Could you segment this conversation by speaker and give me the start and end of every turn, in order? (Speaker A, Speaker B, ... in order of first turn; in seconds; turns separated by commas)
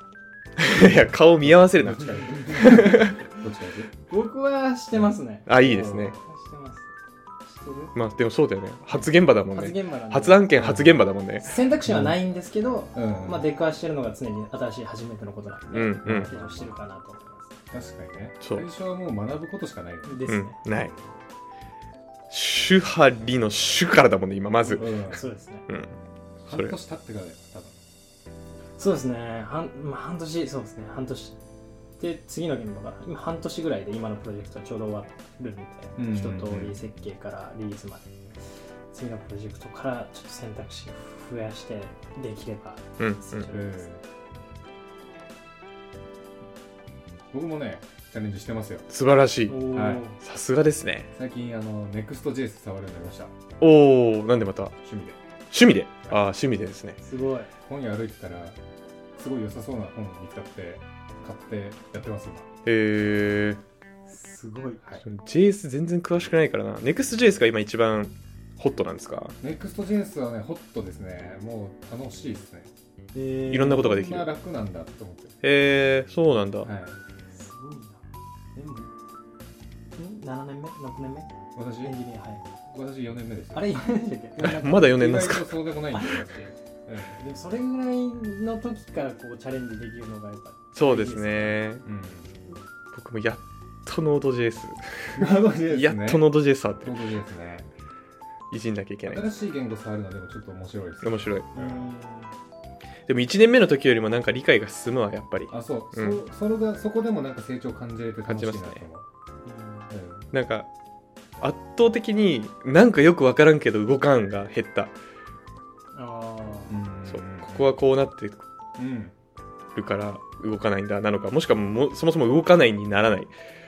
Speaker A: 0.6-3.1, Speaker B: 0.8-3.9, Speaker C: 2.2-3.1, Speaker C: 4.1-5.5, Speaker B: 4.9-6.2, Speaker A: 5.5-6.2, Speaker C: 6.1-6.9, Speaker C: 7.5-7.9, Speaker A: 7.9-11.5, Speaker C: 8.9-10.5, Speaker B: 10.6-11.1, Speaker C: 11.4-17.5, Speaker B: 11.8-12.2, Speaker B: 12.9-13.4, Speaker A: 15.7-16.3, Speaker B: 16.0-16.8, Speaker B: 17.7-20.3, Speaker C: 20.0-20.6, Speaker A: 20.2-20.9, Speaker A: 22.3-25.9, Speaker C: 24.6-25.6, Speaker B: 24.8-25.2, Speaker B: 26.4-27.8, Speaker C: 28.8-31.4, Speaker C: 32.0-38.2, Speaker B: 36.0-36.8, Speaker C: 38.9-43.9, Speaker A: 43.0-43.5, Speaker B: 43.5-44.0, Speaker B: 47.3-48.9, Speaker A: 48.9-49.7, Speaker C: 49.5-50.2, Speaker B: 49.7-50.0, Speaker A: 50.2-51.1, Speaker B: 51.1-53.3, Speaker A: 53.6-54.7, Speaker B: 54.8-55.2, Speaker A: 55.5-57.0, Speaker C: 57.0-57.5, Speaker B: 57.7-58.6, Speaker B: 59.1-62.5, Speaker A: 62.6-63.6, Speaker C: 64.1-64.8, Speaker A: 65.0-69.3, Speaker B: 69.4-72.7, Speaker C: 73.1-73.9, Speaker A: 73.5-74.3, Speaker B: 73.7-75.3, Speaker A: 75.4-76.7, Speaker B: 76.6-77.0, Speaker C: 77.3-78.0, Speaker C: 78.5-78.9, Speaker C: 80.0-81.3, Speaker B: 81.5-82.0, Speaker C: 81.8-82.4, Speaker B: 82.7-83.7, Speaker C: 83.5-84.9, Speaker A: 84.4-85.6, Speaker B: 84.7-87.2, Speaker C: 85.9-86.3, Speaker C: 87.1-91.6, Speaker A: 90.7-91.8, Speaker B: 91.8-92.3, Speaker A: 92.9-96.9, Speaker B: 95.2-97.7, Speaker A: 98.5-99.2, Speaker B: 99.1-101.9, Speaker A: 101.0-101.5, Speaker C: 101.5-102.3, Speaker A: 103.1-106.2, Speaker B: 105.5-109.0, Speaker A: 108.2-108.8, Speaker C: 109.4-109.9, Speaker B: 109.9-110.3, Speaker A: 110.3-110.7, Speaker A: 111.4-114.9, Speaker C: 115.9-116.8, Speaker B: 116.7-117.7, Speaker A: 117.1-118.4, Speaker B: 118.8-119.1, Speaker A: 119.7-123.3